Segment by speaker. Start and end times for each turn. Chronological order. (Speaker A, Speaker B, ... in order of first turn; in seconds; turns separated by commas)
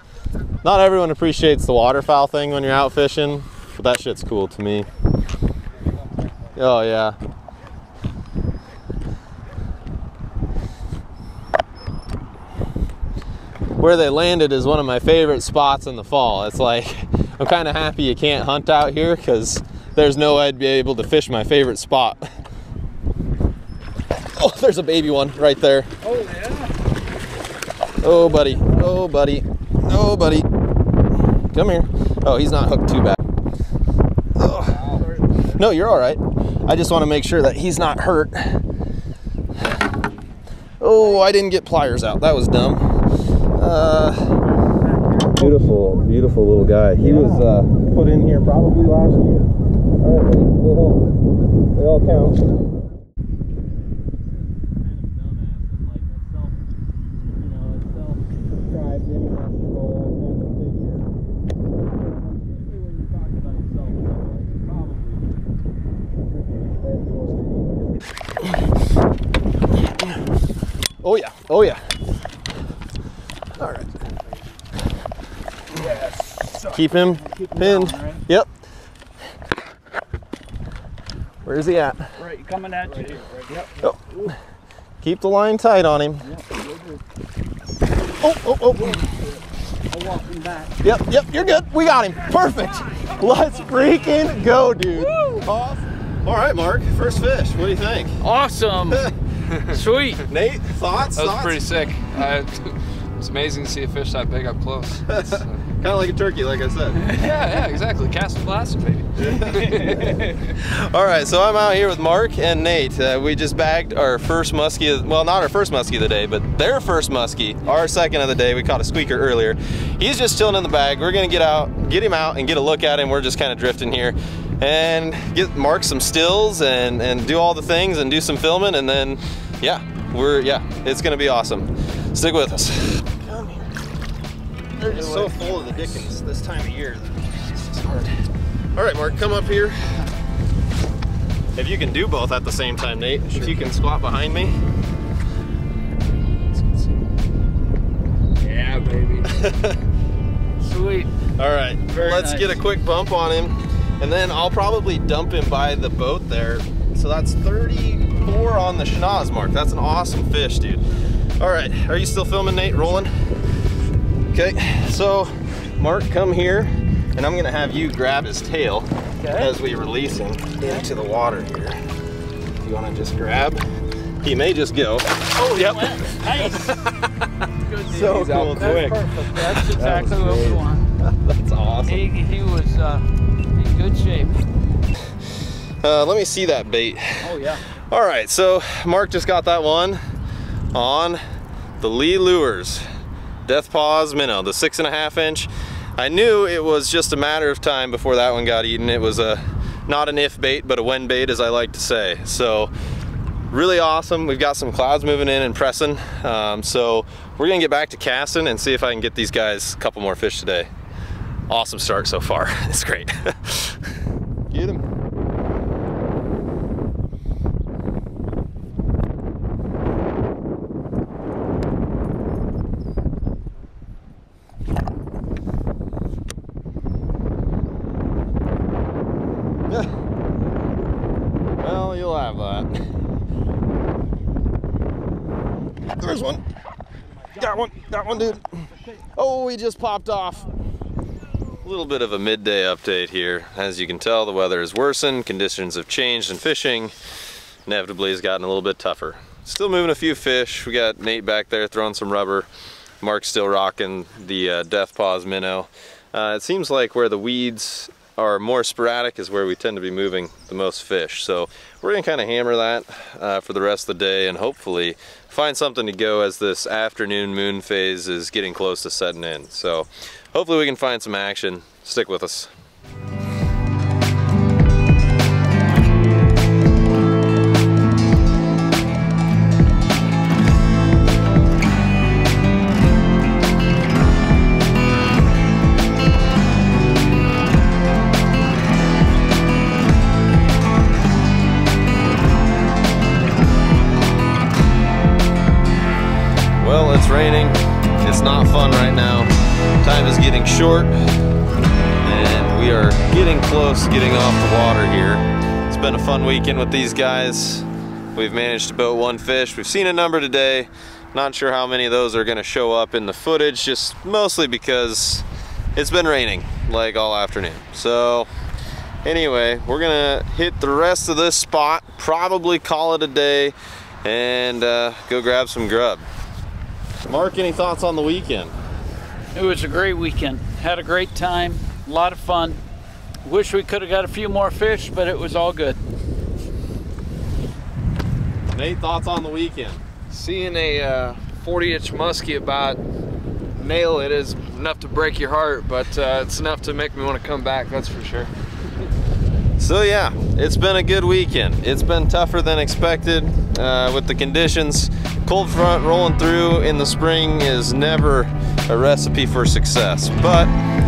Speaker A: 0.6-4.9, Speaker A: 6.5-7.2, Speaker A: 13.8-22.3, Speaker A: 24.3-25.9, Speaker B: 26.0-26.7, Speaker A: 28.0-30.5, Speaker A: 31.5-33.2, Speaker A: 34.4-34.8, Speaker C: 34.7-35.2, Speaker A: 35.5-38.6, Speaker A: 40.8-42.8, Speaker A: 43.5-44.4, Speaker A: 45.3-49.5, Speaker A: 50.0-51.0, Speaker A: 51.7-52.4, Speaker A: 54.8-56.5, Speaker A: 57.6-58.0, Speaker A: 58.7-61.0, Speaker A: 62.6-65.2, Speaker A: 71.0-71.8, Speaker A: 73.5-74.0, Speaker B: 75.9-78.2, Speaker A: 76.6-78.5, Speaker A: 81.4-82.1, Speaker B: 82.2-83.7, Speaker A: 83.8-84.3, Speaker A: 85.0-86.2, Speaker B: 86.3-87.0, Speaker A: 88.2-89.1, Speaker B: 89.9-90.7, Speaker A: 90.8-98.2, Speaker B: 95.0-95.5, Speaker B: 98.2-99.1, Speaker C: 99.5-99.8, Speaker B: 99.7-100.2, Speaker A: 100.2-101.6, Speaker C: 101.1-105.6, Speaker A: 105.1-107.1, Speaker B: 107.1-107.3, Speaker C: 107.1-110.3, Speaker A: 109.2-109.6, Speaker A: 110.5-133.7, Speaker A: 134.8-138.1, Speaker B: 134.8-135.6, Speaker A: 138.7-139.9, Speaker A: 141.5-144.5, Speaker C: 148.4-149.6, Speaker A: 149.3-149.8, Speaker B: 150.6-151.1, Speaker A: 151.4-163.3, Speaker B: 151.9-152.6, Speaker A: 164.3-171.8, Speaker B: 169.2-169.5, Speaker A: 172.6-173.6, Speaker A: 174.2-177.1, Speaker B: 175.4-176.7, Speaker B: 177.6-180.9, Speaker A: 177.8-179.9, Speaker C: 178.0-179.1, Speaker C: 179.7-180.7, Speaker A: 181.0-182.0, Speaker B: 181.8-184.4, Speaker A: 185.8-190.0, Speaker B: 187.2-187.6, Speaker A: 190.7-191.2, Speaker A: 191.8-192.8, Speaker A: 193.4-202.7, Speaker A: 203.5-210.7, Speaker A: 211.5-213.8, Speaker A: 214.5-214.8, Speaker A: 231.6-232.7, Speaker A: 235.9-236.4, Speaker A: 237.3-240.5, Speaker A: 241.6-246.9, Speaker A: 247.7-252.5, Speaker A: 253.0-272.5, Speaker A: 296.6-300.9, Speaker A: 302.0-318.3, Speaker A: 319.0-326.0, Speaker A: 327.1-328.5, Speaker B: 329.3-332.6, Speaker B: 333.2-335.8, Speaker A: 338.5-339.8, Speaker C: 340.1-342.8, Speaker C: 343.6-348.3, Speaker A: 349.6-360.5